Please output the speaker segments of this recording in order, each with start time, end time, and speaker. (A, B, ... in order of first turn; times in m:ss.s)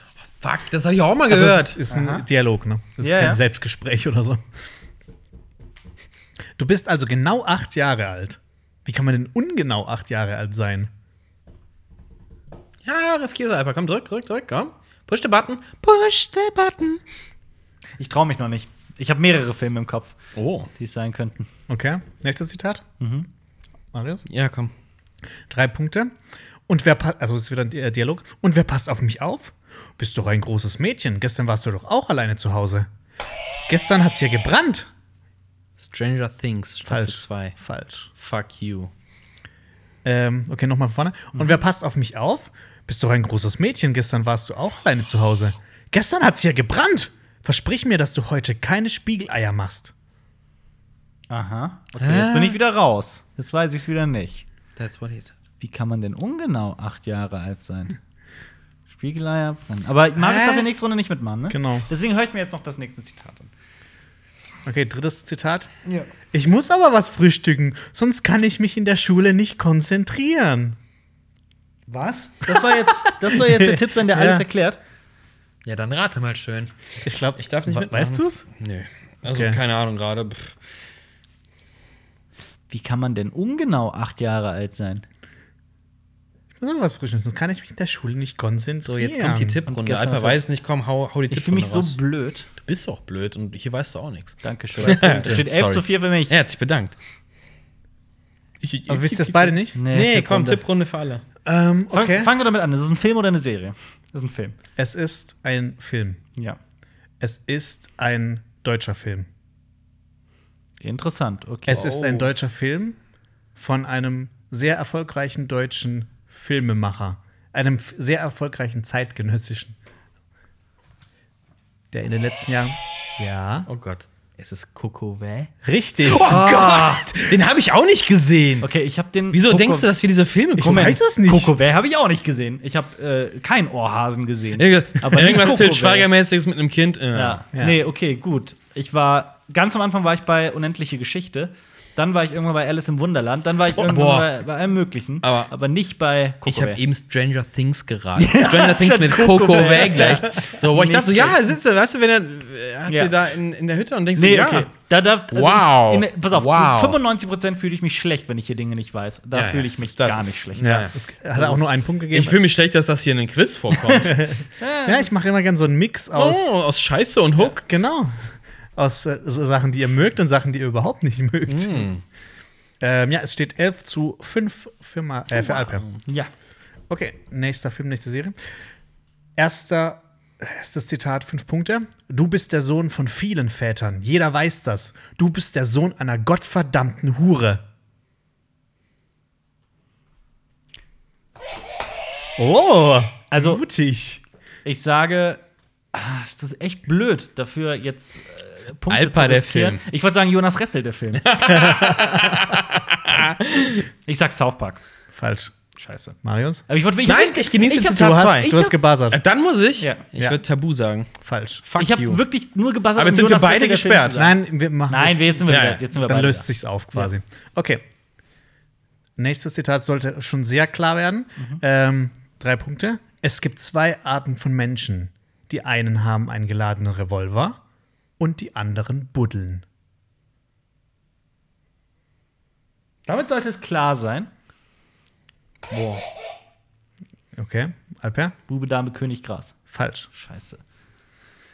0:00.3-0:01.8 A
0:01.3-0:04.4 B
0:01.9-0:02.2 C
0:03.0-0:03.4 C
0:06.6-0:10.9 B
0:12.8-0:17.0 A
0:18.0-0:20.1 C
0:20.4-0:20.7 A
0:20.8-0:21.5 C
0:21.7-0:22.8 B
0:23.0-0:23.3 C
0:23.9-0:24.2 B
0:24.3-0:24.7 A
0:25.5-0:26.1 B
0:26.7-0:32.9 B
0:33.7-0:34.9 B
0:35.8-0:37.6 A
0:36.9-0:38.1 B
0:38.2-0:38.9 A
0:40.0-0:49.9 B
0:51.3-0:54.4 C
0:52.0-0:52.6 A
0:54.8-0:55.3 A
0:55.6-0:58.0 C
0:58.9-1:03.5 C
1:00.2-1:00.7 A
1:01.5-1:01.9 B
1:04.6-1:05.7 B
1:05.9-1:06.1 C
1:06.3-1:10.8 B
1:11.9-1:14.8 C
1:12.5-1:14.4 B
1:15.6-1:16.8 A
1:17.0-1:18.4 B
1:17.4-1:20.6 A
1:19.2-1:19.6 B
1:22.7-1:25.0 C
1:26.6-1:29.6 B
1:28.8-1:32.0 A
1:29.7-1:30.4 C
1:31.3-1:32.5 C
1:32.6-1:37.0 A
1:34.4-1:36.4 C
1:34.8-1:35.4 B
1:38.6-1:41.2 A
1:38.9-1:39.8 B
1:39.7-1:40.6 C
1:41.4-1:42.4 B
1:41.9-1:44.6 C
1:44.8-1:46.2 B
1:47.2-1:49.3 B
1:50.8-1:51.9 C
1:51.7-1:53.0 B
1:51.7-1:52.3 A
1:53.6-1:59.8 B
2:01.9-2:03.7 B
2:03.7-2:05.5 A
2:05.6-2:06.4 B
2:06.0-2:08.7 A
2:06.2-2:07.3 C
2:08.6-2:09.9 C
2:09.3-2:11.0 A
2:10.6-2:11.6 B
2:10.6-2:16.1 C
2:14.6-2:17.4 A
2:17.1-2:26.8 C
2:17.5-2:17.8 B
2:23.8-2:24.3 A
2:25.2-2:25.5 A
2:26.5-2:34.7 A
2:28.2-2:31.4 C
2:30.2-2:30.6 B
2:32.9-2:33.2 C
2:34.2-2:40.8 C
2:35.3-2:37.0 A
2:39.3-2:44.2 A
2:40.6-2:42.4 B
2:43.8-2:44.0 C
2:44.0-2:46.5 B
2:44.6-2:45.1 C
2:46.2-2:47.6 A
2:47.4-2:48.2 B
2:48.8-2:51.9 B
2:51.5-2:52.0 A
2:52.8-2:55.9 B
2:55.5-2:56.0 A
2:56.1-2:56.3 C
2:56.9-2:58.4 B
2:59.4-3:07.6 B
3:12.4-3:14.2 B
3:13.3-3:13.6 C
3:14.6-3:15.4 C
3:15.9-3:21.4 C
3:18.9-3:19.8 A
3:21.2-3:23.9 A
3:21.5-3:22.4 B
3:24.1-3:24.8 C
3:25.1-3:25.5 B
3:25.8-3:28.7 C
3:26.2-3:26.6 B
3:27.0-3:31.1 A
3:27.8-3:29.2 B
3:29.8-3:30.0 C
3:31.2-3:31.6 B
3:31.6-3:32.2 A
3:31.8-3:34.4 C
3:33.0-3:34.3 A
3:34.2-3:37.8 B
3:34.9-3:37.1 C
3:35.5-3:35.8 A
3:39.2-3:47.6 B
3:48.2-3:49.6 B
3:53.1-3:54.3 C
3:55.7-3:56.0 A
3:57.4-3:58.4 B
3:58.5-3:59.6 C
3:59.7-4:00.1 B
4:00.1-4:00.6 C